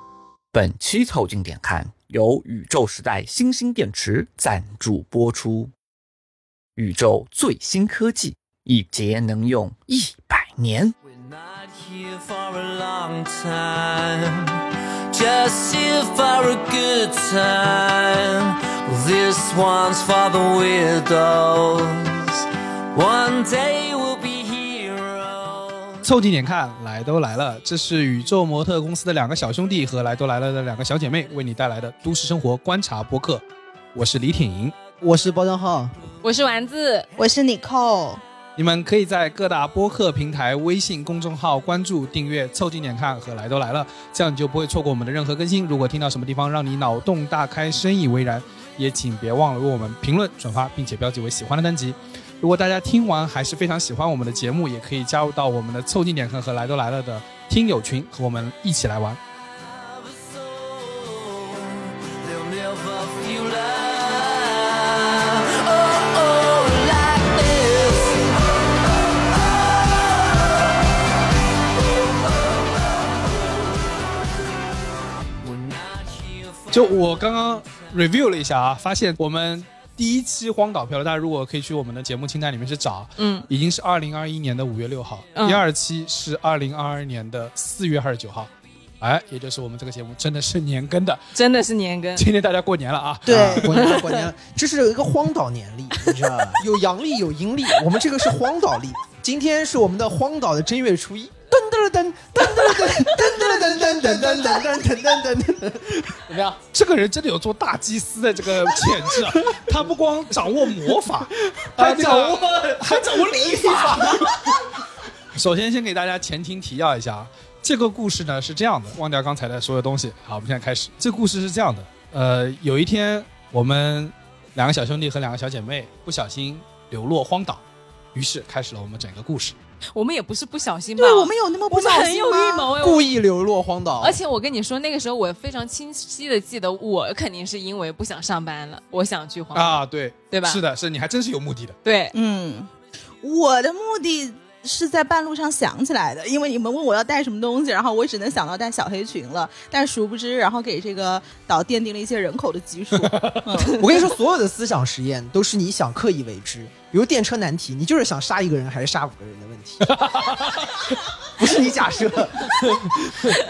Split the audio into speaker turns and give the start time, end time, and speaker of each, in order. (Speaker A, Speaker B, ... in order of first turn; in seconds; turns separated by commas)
Speaker A: 0.5-5.7, Speaker A: 6.8-10.9, Speaker B: 11.1-26.0, Speaker C: 26.0-34.8, Speaker D: 35.0-35.9, Speaker E: 36.2-37.1, Speaker F: 37.2-38.2, Speaker C: 38.6-59.2, Speaker B: 59.7-68.8, Speaker B: 75.4-77.2, Speaker C: 76.7-91.2, Speaker E: 83.2-83.5, Speaker E: 85.4-85.6, Speaker E: 91.3-92.2, Speaker C: 92.2-93.9, Speaker F: 93.3-93.9, Speaker D: 93.3-106.6, Speaker F: 102.5-104.9, Speaker C: 106.7-114.6, Speaker D: 111.6-114.3, Speaker C: 115.3-129.6, Speaker E: 129.9-133.1, Speaker F: 131.0-132.7, Speaker D: 132.7-134.2, Speaker E: 134.0-139.8, Speaker C: 139.5-141.8, Speaker E: 140.3-140.6, Speaker E: 141.8-142.1, Speaker F: 142.1-142.7, Speaker F: 143.2-153.8, Speaker C: 153.0-153.5, Speaker D: 153.8-159.9, Speaker C: 159.8-161.0, Speaker D: 161.4-163.3